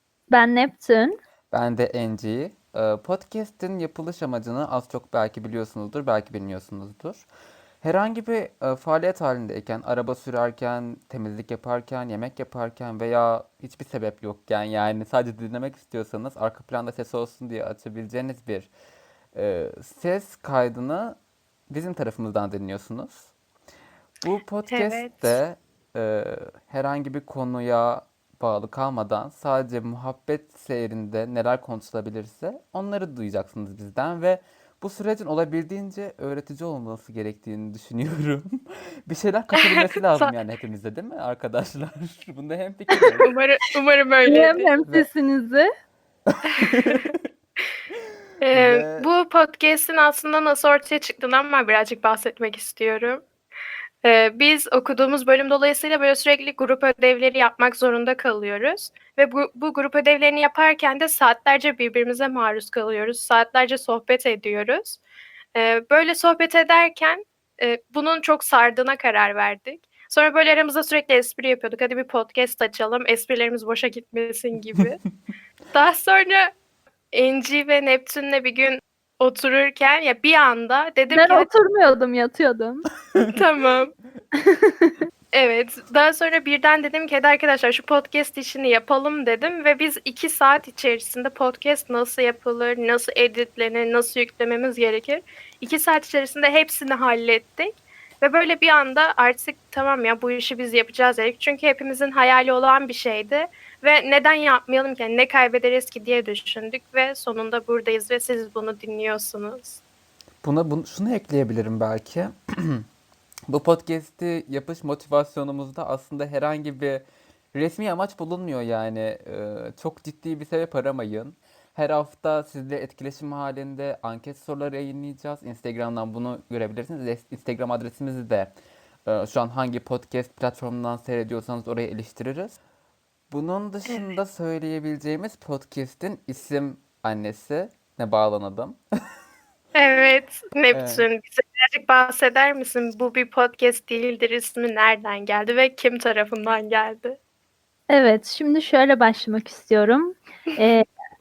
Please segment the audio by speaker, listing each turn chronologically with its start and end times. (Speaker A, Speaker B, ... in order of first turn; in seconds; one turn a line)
Speaker A: 0.3-1.1
Speaker B: 1.5-7.2
Speaker B: 7.8-18.7
Speaker B: 19.3-21.2
Speaker B: 21.7-23.3
Speaker B: 24.2-38.5
Speaker C: 24.7-25.4
Speaker B: 39.1-43.3
Speaker C: 39.6-40.3
Speaker C: 43.2-44.7
Speaker A: 44.2-45.7
Speaker B: 46.3-47.2
Speaker C: 46.6-47.0
Speaker C: 48.4-53.2
Speaker B: 48.5-49.1
Speaker C: 54.0-65.0
Speaker C: 65.5-75.0
Speaker C: 75.7-76.5
Speaker C: 77.1-81.5
Speaker A: 81.1-82.9
Speaker C: 83.3-83.9
Speaker A: 84.5-84.9
Speaker C: 85.3-109.8
Speaker B: 110.4-112.8
Speaker B: 113.5-128.5
Speaker B: 129.1-132.6
Speaker B: 133.3-138.8
Speaker C: 133.8-134.1
Speaker C: 139.7-147.2
Speaker B: 140.7-141.0
Speaker A: 147.9-150.8